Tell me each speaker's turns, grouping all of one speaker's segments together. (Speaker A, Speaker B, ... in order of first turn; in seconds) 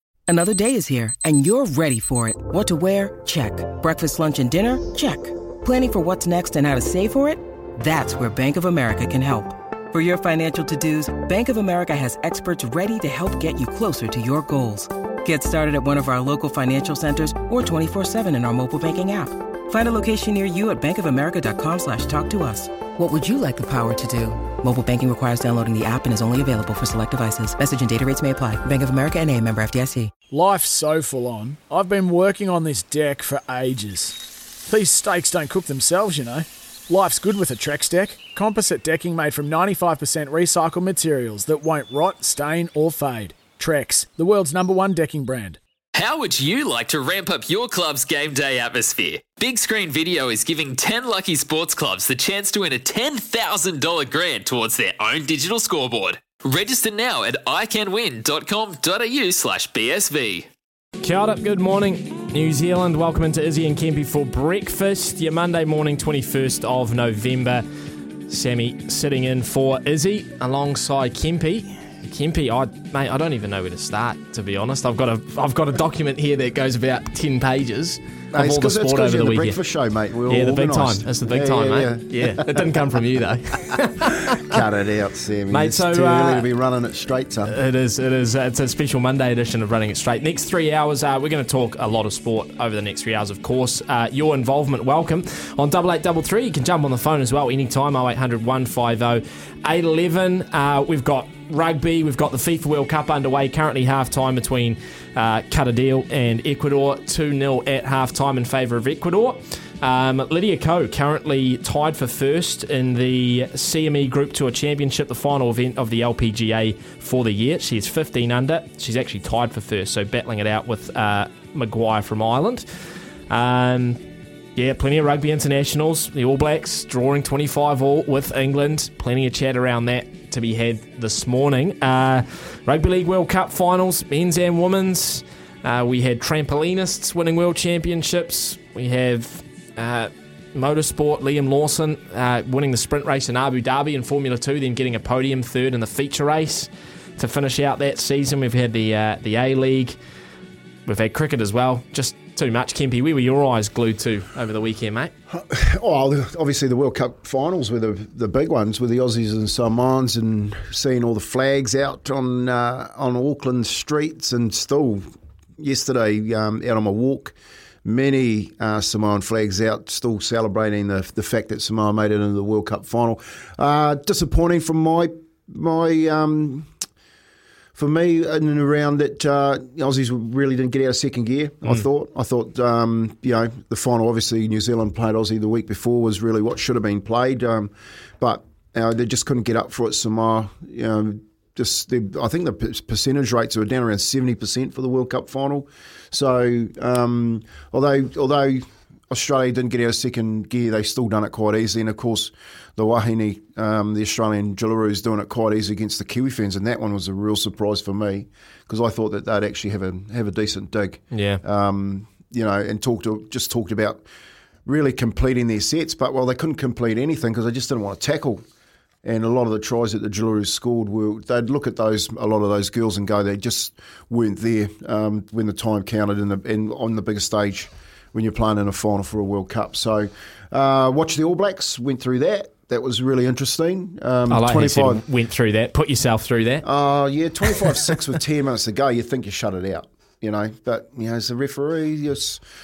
Speaker A: 0.3-30.1
Speaker B: 30.3-45.6
Speaker C: 45.9-60.5
Speaker D: 61.0-67.6, 68.3-79.6, 80.3-84.5, 85.5-86.5, 87.5-122.7, 123.3-124.0, 124.6-149.9, 150.9-155.1, 211.1-211.4, 234.3-236.7, 237.5-237.8
Speaker E: 78.3-82.9, 84.4-87.6, 155.3-165.0, 165.6-176.7, 177.8-214.0, 214.7-218.4, 219.0-235.0, 236.6-242.4